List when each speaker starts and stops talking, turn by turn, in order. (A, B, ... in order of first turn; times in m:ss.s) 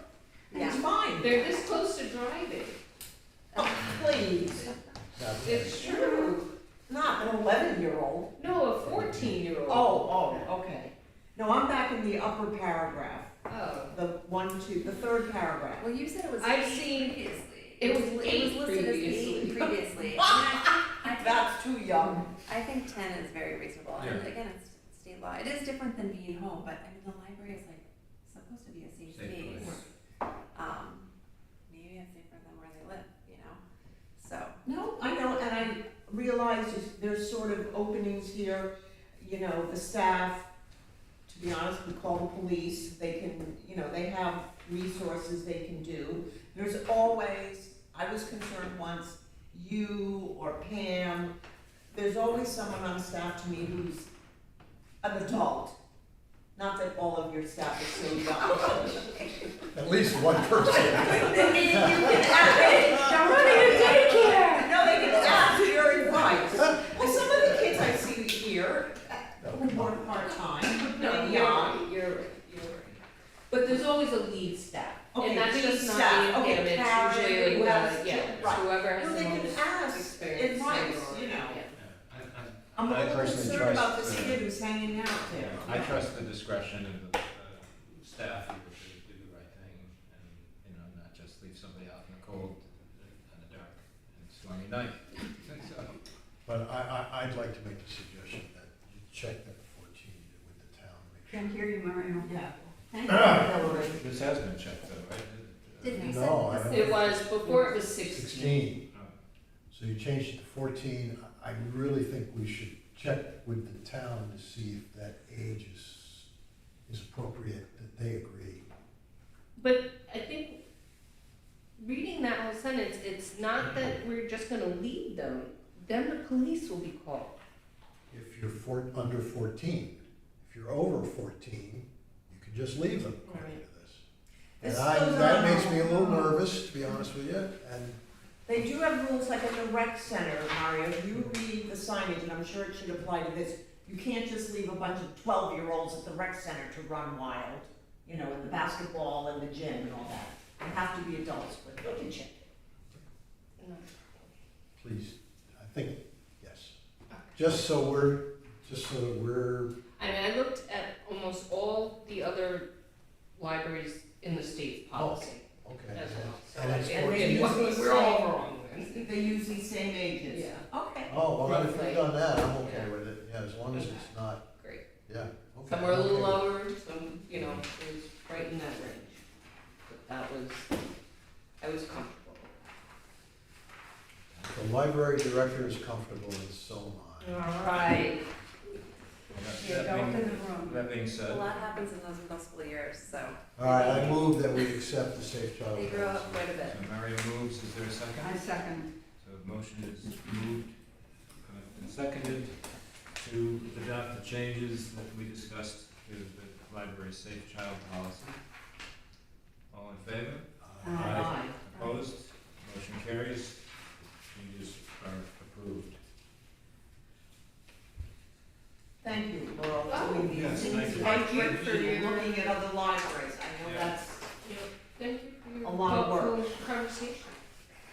0:00.5-0:00.8 A
0:00.5-0:01.5 B
0:01.2-0:02.8 C
0:03.6-0:04.7 B
0:05.1-0:05.8 D
0:05.4-0:06.5 C
0:05.8-0:06.3 B
0:06.9-0:08.3 B
0:08.4-0:10.5 C
0:09.7-0:13.4 B
0:13.5-0:14.0 C
0:13.9-0:15.9 B
0:15.8-0:29.9 A
0:16.4-0:17.2 C
0:17.8-0:19.8 C
0:20.2-0:22.4 B
0:24.0-0:24.3 E
0:29.1-0:29.8 E
0:29.6-0:29.9 C
0:30.5-0:31.1 A
0:31.7-0:33.6 A
0:34.2-0:34.6 A
0:34.6-0:40.5 B
0:41.3-0:51.3 B
0:51.9-0:54.1 B
0:55.0-0:55.8 B
0:56.6-0:59.1 B
0:58.4-0:59.7 A
0:59.7-1:02.3 D
1:00.6-1:02.8 A
1:01.0-1:11.8 B
1:02.5-1:05.5 F
1:02.8-1:03.3 D
1:03.5-1:03.8 A
1:05.1-1:05.6 D
1:09.4-1:10.1 D
1:10.9-1:21.8 C
1:15.2-1:21.6 B
1:21.8-1:24.5 E
1:22.8-1:26.0 B
1:25.2-1:36.0 E
1:36.5-1:41.6 D
1:41.3-1:42.4 F
1:42.2-1:44.0 B
1:43.1-1:43.4 D
1:44.0-1:46.0 E
1:45.8-1:46.9 A
1:46.0-1:47.3 D
1:46.6-1:48.7 C
1:48.0-1:48.9 D
1:49.7-1:56.3 D
1:56.9-1:58.7 D
1:59.6-2:00.6 C
2:01.8-2:07.4 C
2:08.1-2:14.0 D
2:13.2-2:13.6 C
2:14.6-2:16.0 B
2:14.6-2:18.0 D
2:15.4-2:16.3 F
2:18.5-2:32.5 B
2:33.6-2:34.3 C
2:34.8-2:36.8 D
2:37.1-2:37.4 C
2:37.3-2:39.8 D
2:40.0-2:42.7 C
2:43.4-2:49.1 C
2:44.9-2:47.6 D
2:46.8-2:48.3 B
2:49.0-2:51.2 B
2:50.3-2:50.7 C
2:51.1-2:54.4 D
2:51.4-2:52.1 C
2:52.6-2:52.9 C
2:53.7-2:54.8 C
2:55.1-2:56.4 D
2:55.6-2:59.2 C
2:57.4-2:57.6 E
2:59.8-3:00.7 C
3:01.6-3:02.5 C
3:04.3-3:04.6 E
3:04.5-3:07.5 D
3:07.2-3:08.2 C
3:09.3-3:11.4 E
3:09.6-3:10.8 F
3:11.2-3:14.2 A
3:13.6-3:16.5 D
3:15.7-3:16.8 A
3:16.6-3:18.4 E
3:18.2-3:18.9 F
3:19.2-3:20.8 E
3:21.4-3:28.4 E
3:29.7-3:36.0 E
3:30.6-3:31.3 D
3:30.8-3:31.2 A
3:30.9-3:31.6 B
3:39.0-3:44.3 B
3:39.9-3:42.5 C
3:40.3-3:41.7 E
3:43.6-3:44.0 E
3:44.4-3:47.4 C
3:45.6-3:46.4 B